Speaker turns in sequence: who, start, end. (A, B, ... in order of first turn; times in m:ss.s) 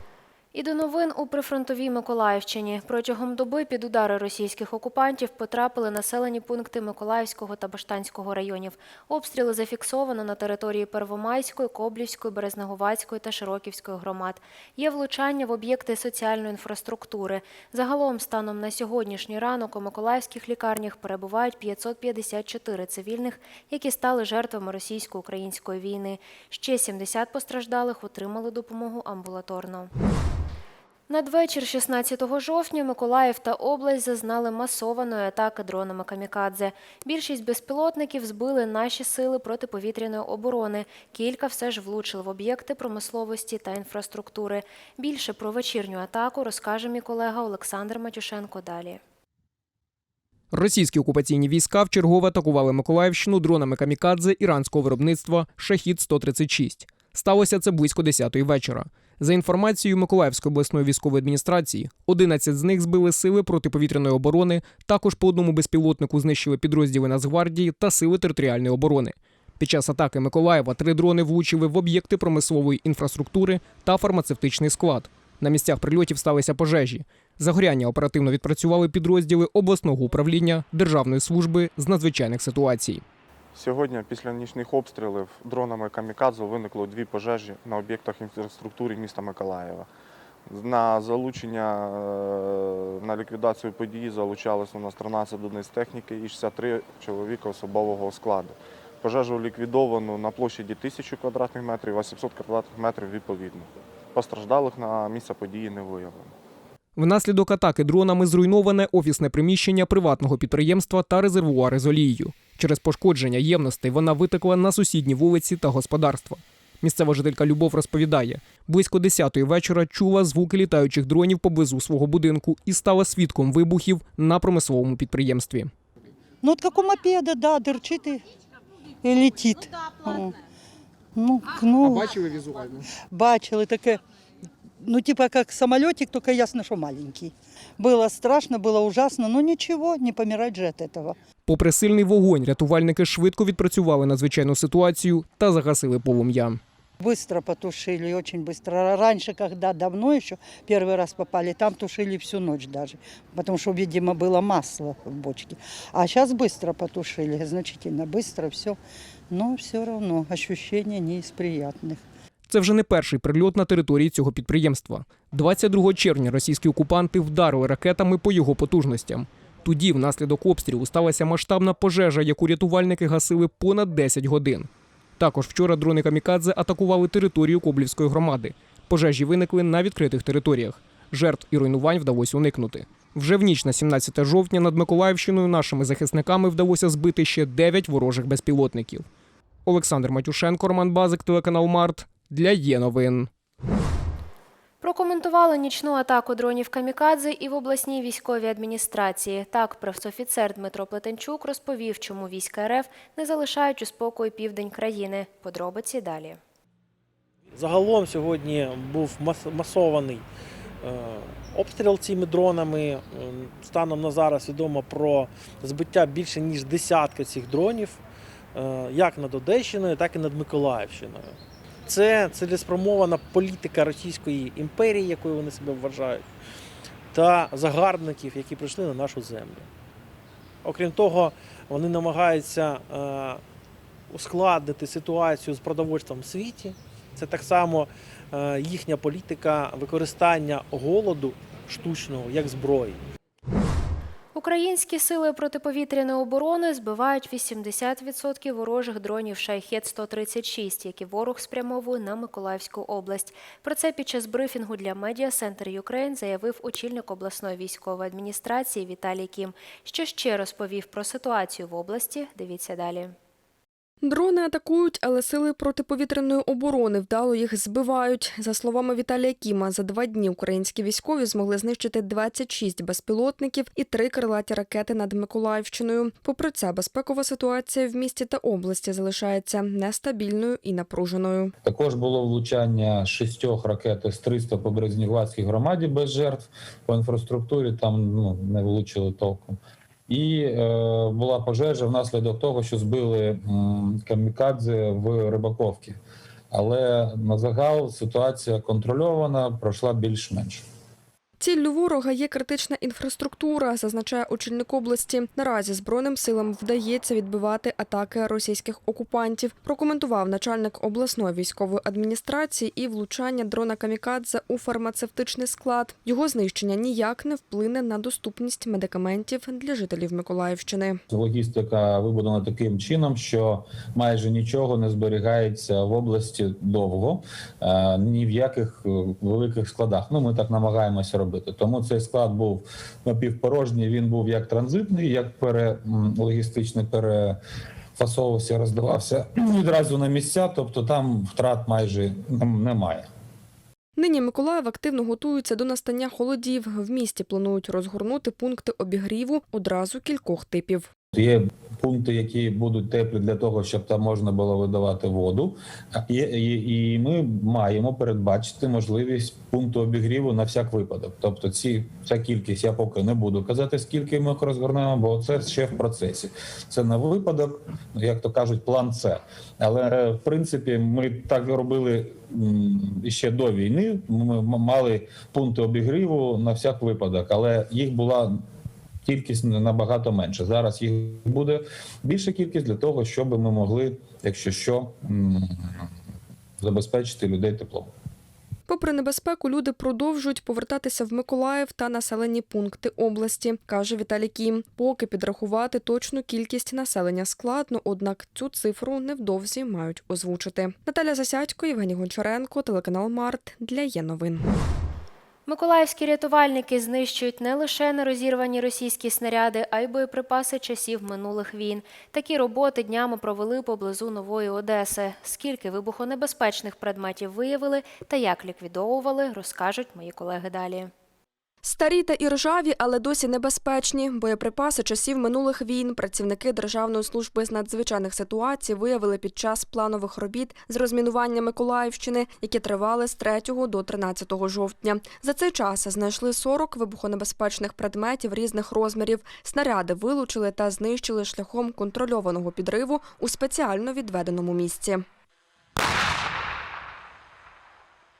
0:00.5-0:29.9 A
0:31.1-0:49.0 A
0:50.5-1:23.0 B
1:23.5-1:29.9 C
1:30.5-1:46.3 C
1:47.0-2:05.7 B
2:06.4-2:08.2 D
2:09.0-2:10.3 D
2:11.2-2:12.0 D
2:13.1-2:14.0 D
2:14.8-2:21.1 D
2:21.4-2:26.6 B
2:27.0-2:38.8 D
2:39.3-2:42.0 D
2:42.5-3:09.0 B
3:09.6-3:13.3 B
3:14.8-3:26.4 A
3:27.5-3:30.2 E
3:30.8-3:38.0 E
3:38.5-3:41.4 E
3:41.9-3:46.2 E
3:47.1-3:49.7 E
3:50.6-3:53.4 E
3:54.1-4:03.0 E
4:04.3-4:23.1 A
4:24.0-4:41.5 F
4:41.6-4:49.6 G
4:50.1-4:56.0 G
4:56.5-5:00.6 G
5:01.4-5:21.0 F
5:21.1-5:37.4 G
5:38.0-5:43.1 G
5:44.0-5:50.9 F
5:51.1-6:18.4 G
6:19.0-6:25.8 G
6:26.6-6:27.9 G
6:28.7-6:44.4 F
6:45.5-7:00.9 A
7:01.6-7:25.0 F